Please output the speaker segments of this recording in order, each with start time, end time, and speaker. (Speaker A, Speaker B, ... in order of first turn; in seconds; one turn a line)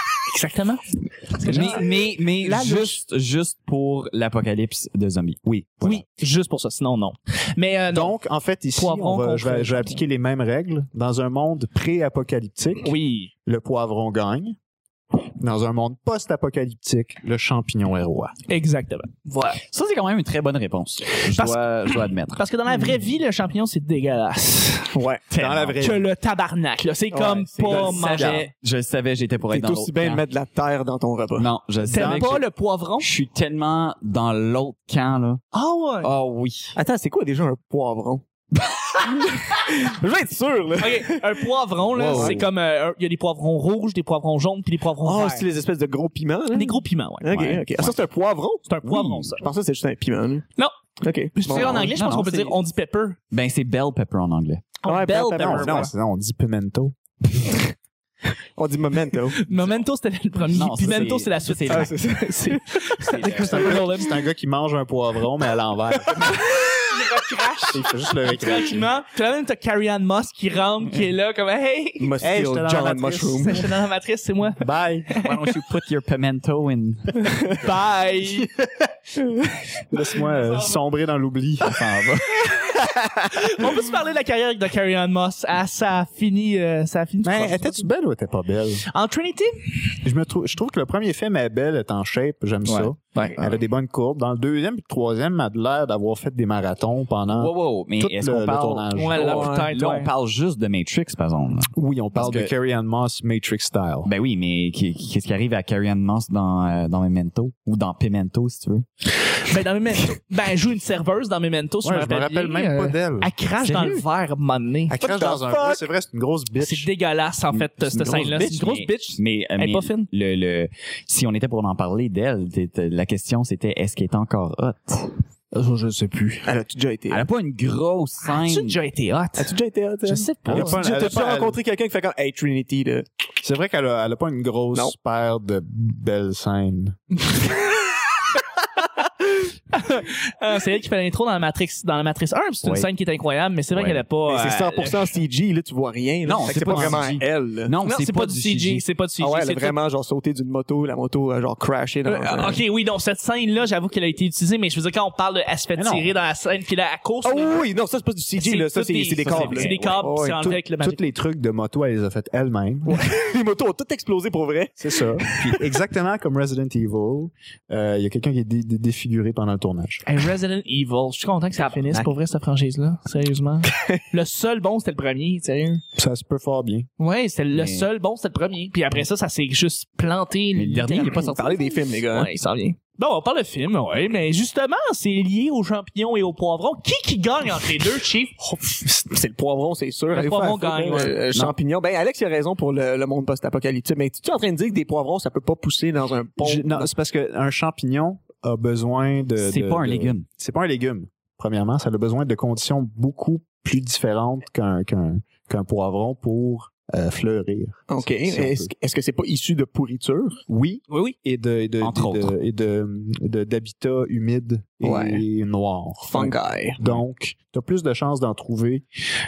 Speaker A: 0.3-3.0
Speaker B: 1.4-6.0
Speaker C: 5.5-5.9
Speaker A: 5.8-8.2
Speaker C: 7.9-12.9
Speaker A: 8.7-10.0
Speaker A: 12.8-13.3
Speaker C: 13.5-14.6
Speaker C: 15.4-18.3
Speaker A: 18.5-19.6
Speaker B: 19.7-22.4
Speaker A: 21.4-24.9
Speaker D: 24.9-25.2
Speaker B: 25.3-25.9
Speaker C: 25.3-26.1
Speaker A: 25.8-28.5
Speaker D: 27.1-27.9
Speaker B: 27.6-30.3
Speaker C: 27.7-28.5
Speaker D: 29.5-31.5
Speaker B: 31.4-32.5
Speaker C: 31.9-32.4
Speaker A: 31.9-33.1
Speaker B: 33.0-35.4
Speaker A: 35.5-36.1
Speaker B: 36.0-36.8
Speaker D: 36.8-38.2
Speaker D: 39.0-41.4
Speaker A: 40.8-45.5
Speaker B: 42.0-42.5
Speaker D: 42.1-42.4
Speaker D: 45.0-48.7
Speaker A: 46.5-47.3
Speaker B: 47.3-48.0
Speaker A: 48.7-49.5
Speaker D: 49.4-50.5
Speaker D: 51.0-52.0
Speaker A: 51.3-53.2
Speaker B: 51.5-52.6
Speaker B: 53.3-54.7
Speaker A: 54.8-55.9
Speaker D: 54.9-55.9
Speaker C: 55.4-57.0
Speaker D: 58.6-59.4
Speaker A: 59.4-64.2
Speaker B: 60.5-61.9
Speaker D: 61.7-62.6
Speaker B: 63.1-63.8
Speaker C: 63.3-66.1
Speaker A: 66.5-72.1
Speaker C: 67.7-68.9
Speaker D: 72.0-73.6
Speaker C: 72.2-73.6
Speaker A: 73.4-75.4
Speaker C: 74.6-75.1
Speaker B: 75.2-77.6
Speaker A: 77.6-78.5
Speaker C: 78.3-78.9
Speaker C: 79.9-81.9
Speaker B: 81.6-82.5
Speaker C: 82.6-83.3
Speaker A: 83.3-87.9
Speaker C: 87.2-88.8
Speaker A: 88.9-89.7
Speaker C: 90.0-99.6
Speaker B: 92.7-92.9
Speaker B: 97.3-99.0
Speaker A: 98.9-100.1
Speaker D: 99.1-99.7
Speaker B: 99.5-102.5
Speaker C: 101.7-104.1
Speaker B: 104.0-108.8
Speaker A: 109.4-115.0
Speaker C: 111.8-113.3
Speaker B: 113.6-114.1
Speaker C: 114.9-116.9
Speaker D: 115.0-115.8
Speaker A: 116.6-120.1
Speaker D: 117.6-118.4
Speaker B: 118.2-125.2
Speaker A: 125.5-126.5
Speaker D: 126.5-127.3
Speaker B: 127.1-128.8
Speaker A: 128.4-129.5
Speaker D: 129.4-133.1
Speaker A: 130.0-130.8
Speaker C: 130.4-131.6
Speaker C: 133.4-137.0
Speaker A: 139.7-145.1
Speaker B: 142.6-142.9
Speaker B: 143.7-144.1
Speaker D: 144.3-147.8
Speaker B: 146.2-148.8
Speaker C: 146.6-147.0
Speaker A: 147.8-149.8
Speaker D: 149.2-152.6
Speaker A: 152.1-157.6
Speaker C: 155.8-156.1
Speaker D: 157.2-160.5
Speaker A: 158.4-161.0
Speaker B: 159.3-160.0
Speaker C: 160.4-162.9
Speaker D: 162.9-165.6
Speaker C: 164.8-170.0
Speaker A: 170.1-175.8
Speaker C: 176.0-176.9
Speaker A: 177.0-188.4
Speaker B: 177.5-177.9
Speaker B: 180.5-181.6
Speaker D: 181.2-182.3
Speaker C: 188.8-189.1
Speaker D: 189.1-196.9
Speaker A: 190.1-191.2
Speaker C: 196.4-208.7
Speaker B: 199.4-200.2
Speaker D: 207.9-210.4
Speaker C: 210.5-218.8
Speaker A: 210.9-211.2
Speaker B: 211.8-212.4
Speaker D: 214.8-215.2
Speaker D: 216.1-216.8